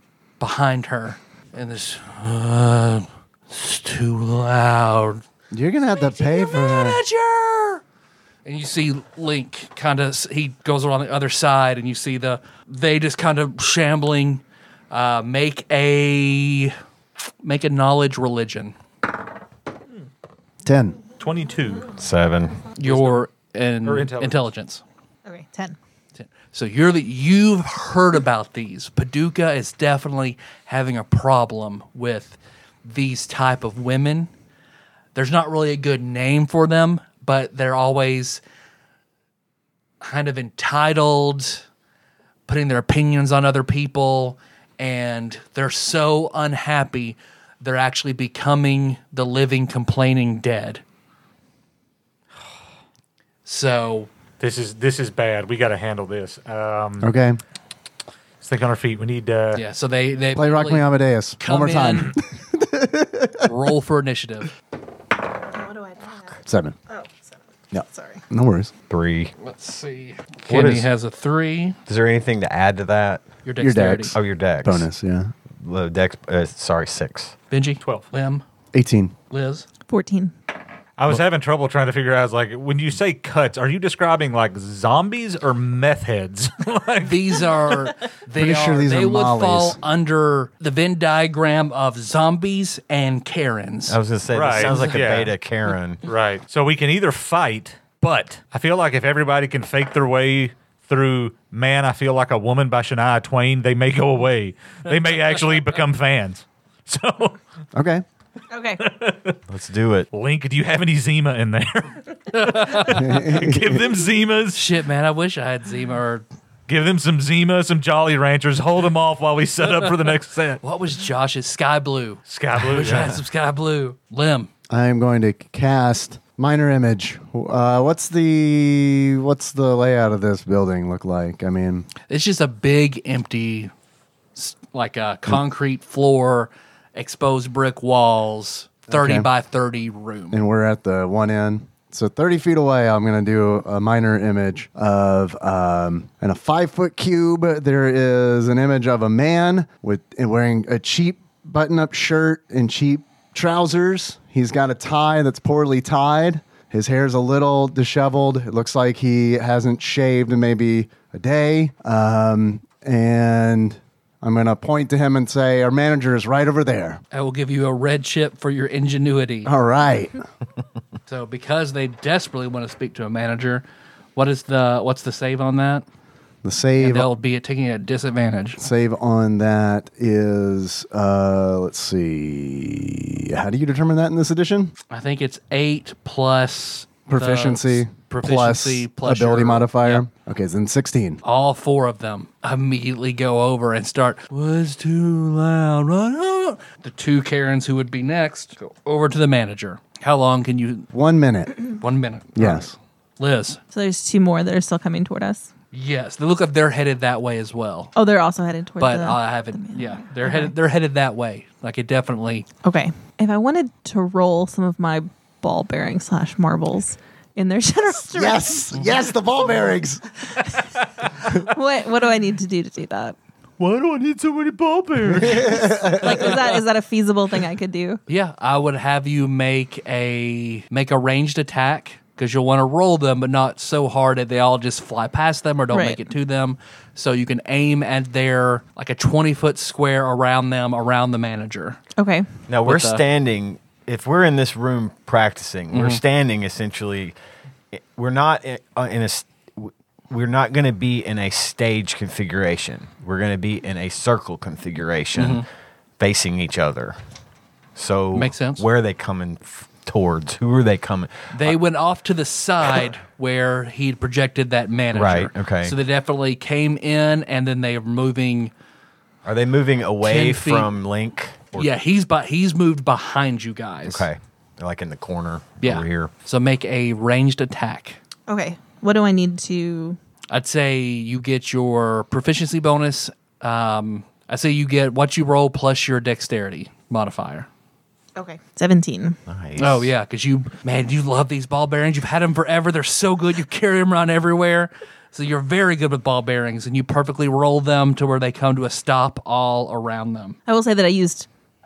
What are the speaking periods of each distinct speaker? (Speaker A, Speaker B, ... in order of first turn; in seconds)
Speaker A: 0.4-5.2, 6.0-7.8, 8.4-16.8, 17.4-18.8, 22.8-24.8, 26.2-34.3, 35.1-38.4, 40.0-41.6, 42.5-50.8, 53.5-54.1, 59.5-62.2, 63.4-64.5, 69.4-71.8, 73.5-74.2, 77.5-78.4, 79.3-79.7, 87.0-94.0, 94.6-95.0, 112.3-113.0, 114.5-116.2, 120.6-124.5, 132.1-133.7, 134.4-140.4, 167.1-169.5, 171.1-173.6, 174.2-175.8, 176.8-178.6, 184.9-190.1, 191.2-200.9, 201.8-203.6, 205.7-207.9, 208.8-212.5, 228.1-241.8, 242.6-243.0, 245.7-246.0, 255.2-255.4, 258.1-258.7, 261.3-268.5, 270.0-270.7, 271.6-274.1, 275.6-278.0, 280.3-287.5, 289.6-300.4
Speaker B: 5.5-7.0, 20.6-21.0, 57.0-57.4, 60.3-63.5, 66.4-66.8, 67.7-68.7, 73.6-75.3, 78.7-79.1, 88.4-89.8, 107.8-108.0, 112.9-113.8, 124.7-131.9, 138.9-139.3, 140.3-167.0, 169.5-170.2, 176.4-177.1, 178.6-184.7, 187.1-191.2, 200.9-201.6, 202.4-202.7, 218.1-220.1, 225.1-226.2
Speaker C: 21.2-21.9, 22.8-23.3, 23.9-24.5, 54.4-57.1, 58.4-59.6, 77.8-78.1, 81.0-87.9, 94.3-95.3, 96.1-107.4, 108.8-109.4, 110.1-114.6, 116.7-120.6, 122.3-123.2, 223.6-226.4
Speaker D: 22.0-22.7, 68.9-69.3, 70.5-70.9, 71.9-73.3, 74.1-74.9, 75.5-77.3, 93.9-96.0, 109.5-110.1, 242.5-247.2, 247.7-255.4, 256.0-257.0, 257.8-261.6, 264.9-265.8, 269.2-271.7, 273.9-276.1, 289.3-289.9
Speaker E: 25.3-25.8, 65.5-66.4, 66.9-68.2, 79.9-80.3, 108.5-108.8, 203.7-205.5, 207.9-210.5, 212.6-218.7, 221.2-223.2, 225.9-228.0, 235.7-236.1, 242.0-242.3, 278.3-280.0, 288.2-289.2, 300.5-301.3